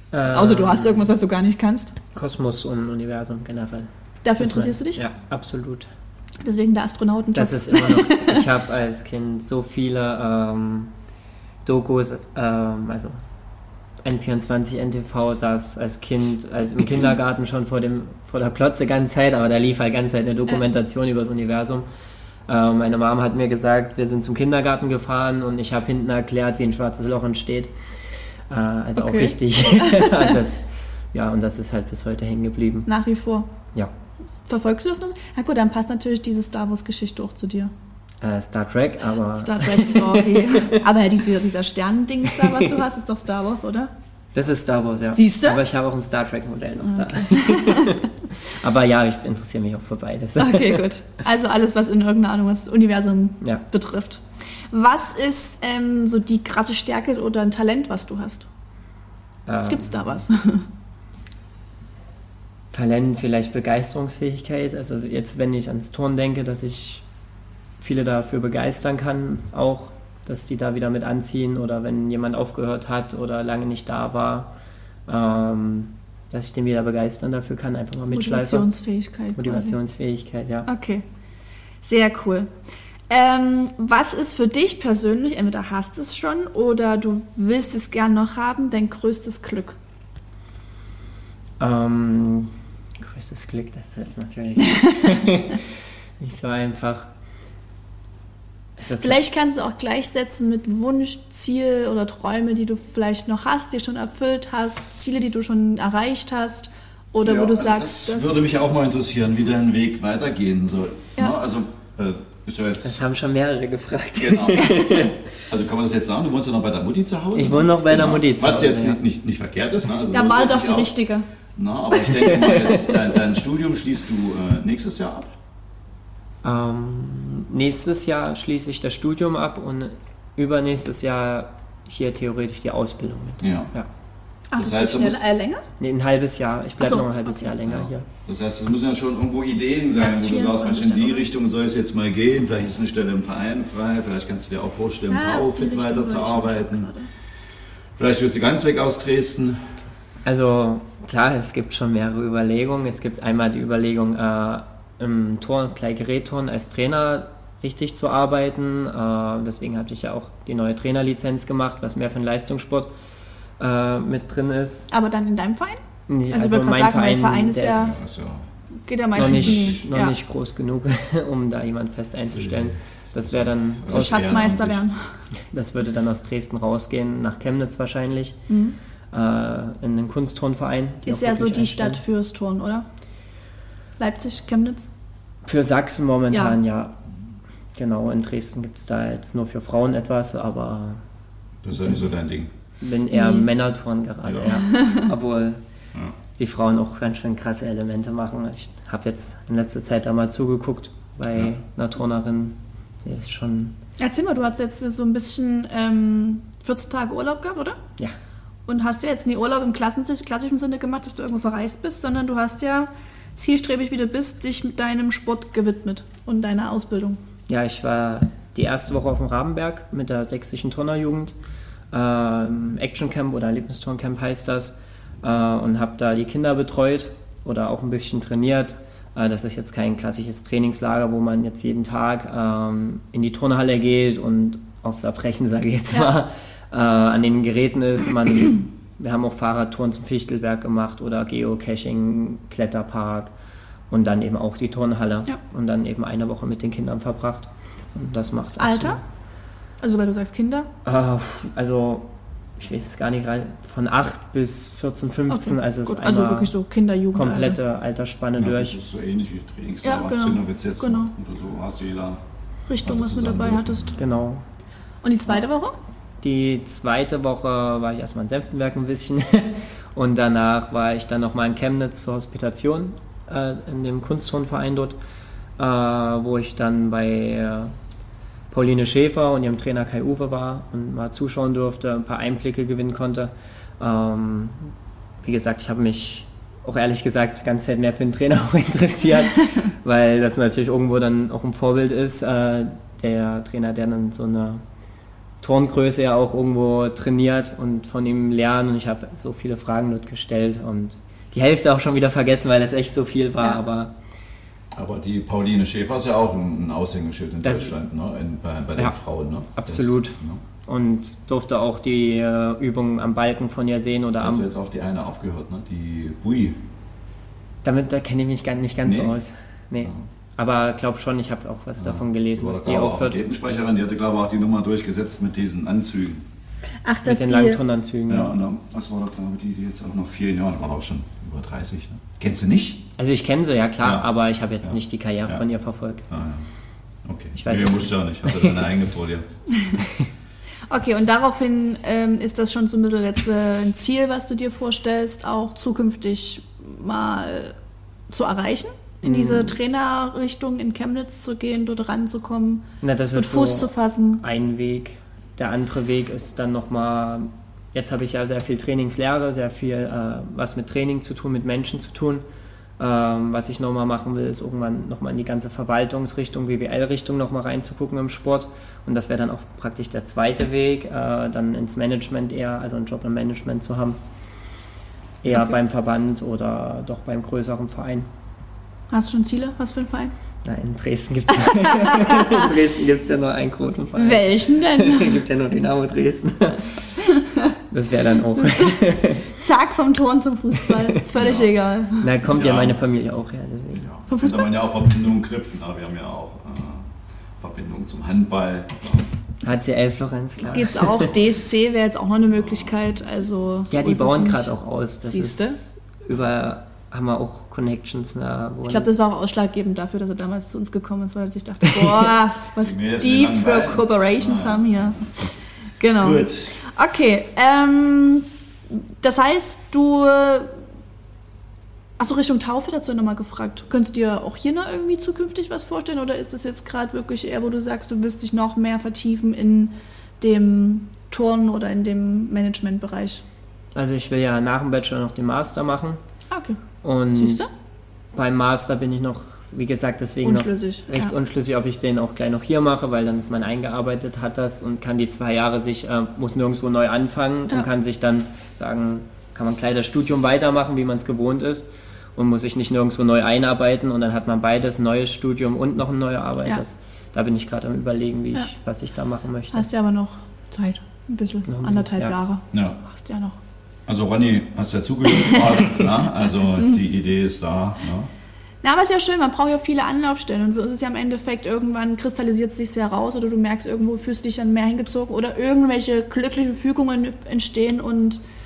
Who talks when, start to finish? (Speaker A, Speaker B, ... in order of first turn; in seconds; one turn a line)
Speaker A: 0.1-1.1
Speaker B: 0.3-1.9
Speaker A: 2.1-5.9
Speaker B: 4.2-5.0
Speaker B: 6.4-8.5
Speaker A: 7.3-10.9
Speaker A: 11.7-13.2
Speaker A: 14.0-21.9
Speaker A: 22.5-27.7
Speaker A: 28.5-32.9
Speaker B: 29.0-30.4
Speaker B: 32.9-33.5
Speaker B: 34.5-37.7
Speaker A: 38.2-40.8
Speaker B: 39.4-43.9
Speaker A: 44.3-50.9
Speaker B: 45.1-45.6
Speaker B: 46.8-48.0
Speaker B: 50.4-58.5
Speaker A: 59.5-60.1
Speaker B: 59.7-60.7
Speaker A: 62.7-67.0
Speaker A: 67.8-74.5
Speaker A: 75.1-78.7
Speaker B: 78.1-79.8
Speaker A: 79.3-80.7
Speaker B: 80.7-81.0
Speaker B: 81.8-82.5
Speaker B: 83.1-89.8
Speaker A: 91.6-95.7
Speaker B: 94.6-95.3
Speaker A: 96.2-97.1
Speaker A: 98.8-99.2
Speaker B: 99.0-108.5
Speaker C: 107.2-113.0
Speaker A: 112.8-115.2
Speaker C: 114.2-120.9
Speaker A: 117.3-119.0
Speaker B: 120.1-121.3
Speaker C: 121.6-125.3
Speaker B: 121.9-122.6
Speaker A: 122.4-122.7
Speaker A: 126.4-133.9
Speaker C: 133.4-133.7
Speaker B: 134.5-135.7
Speaker C: 134.6-135.3
Speaker A: 135.8-138.1
Speaker B: 136.8-137.5
Speaker C: 137.7-146.9
Speaker B: 139.9-141.2
Speaker B: 145.1-147.1
Speaker C: 148.0-149.6
Speaker A: 150.2-162.9
Speaker A: 163.6-164.9
Speaker B: 164.9-168.0
Speaker A: 166.1-168.0
Speaker C: 167.7-168.4
Speaker B: 168.9-170.2
Speaker A: 169.2-174.5
Speaker C: 169.2-169.8
Speaker C: 172.4-172.7
Speaker C: 173.3-174.8
Speaker B: 173.9-175.0
Speaker A: 175.5-178.4
Speaker B: 178.5-178.8
Speaker A: 179.1-182.0
Speaker B: 181.1-182.9
Speaker B: 184.0-184.9
Speaker A: 185.4-186.9
Speaker B: 186.3-186.6
Speaker A: 187.8-191.0
Speaker C: 191.6-192.5
Speaker A: 192.8-195.6
Speaker B: 193.1-193.5
Speaker C: 194.2-194.6
Speaker B: 194.7-195.1
Speaker A: 196.4-203.8
Speaker B: 204.0-207.8
Speaker B: 208.7-217.2
Speaker A: 217.5-221.3
Speaker A: 221.9-243.3
Speaker A: 243.9-249.0
Speaker B: 248.6-249.0
Speaker B: 249.8-250.7
Speaker A: 250.8-256.5
Speaker B: 255.3-257.6
Speaker A: 257.1-258.8
Speaker C: 258.4-262.2
Speaker B: 259.8-261.1
Speaker B: 262.7-264.0
Speaker C: 262.8-264.2
Speaker A: 264.0-264.4
Speaker B: 265.0-265.8
Speaker A: 266.2-275.0
Speaker A: 275.6-277.7
Speaker A: 278.5-284.7
Speaker A: 285.2-294.6
Speaker A: 295.4-303.9
Speaker C: 304.7-310.4
Speaker A: 307.4-307.7
Speaker A: 309.6-314.5
Speaker C: 314.2-316.6
Speaker A: 317.6-323.2
Speaker C: 318.9-319.1
Speaker C: 321.8-326.2
Speaker B: 326.9-327.6
Speaker A: 327.1-328.3
Speaker C: 328.1-332.8
Speaker A: 333.0-336.1
Speaker C: 334.6-335.4
Speaker C: 336.1-336.4
Speaker C: 337.1-339.3
Speaker A: 337.4-338.6
Speaker B: 340.7-347.6
Speaker B: 348.1-354.2
Speaker A: 349.0-349.6
Speaker A: 352.8-362.2
Speaker A: 362.8-374.0
Speaker A: 375.2-378.1
Speaker B: 375.3-375.6
Speaker B: 378.9-380.1
Speaker A: 380.4-387.0
Speaker B: 381.4-382.5
Speaker B: 384.0-385.2
Speaker B: 387.0-387.5
Speaker A: 387.7-389.3
Speaker B: 388.3-392.1
Speaker C: 391.2-391.5
Speaker A: 392.0-393.9
Speaker C: 392.2-392.8
Speaker C: 393.8-399.1
Speaker B: 394.1-394.5
Speaker A: 399.4-401.1
Speaker B: 400.4-404.5
Speaker C: 402.4-402.7
Speaker A: 403.7-408.9
Speaker B: 405.0-405.6
Speaker B: 408.7-415.1
Speaker C: 412.6-415.2
Speaker B: 415.8-420.6
Speaker C: 416.0-416.6
Speaker B: 422.0-433.2
Speaker A: 433.8-436.0
Speaker B: 436.3-436.6
Speaker A: 436.8-437.5
Speaker B: 437.1-437.5
Speaker A: 438.1-459.7
Speaker B: 440.2-441.1
Speaker B: 459.5-463.4
Speaker A: 461.5-462.1
Speaker C: 462.5-462.8
Speaker C: 463.9-468.1
Speaker B: 465.1-465.5
Speaker B: 468.6-478.2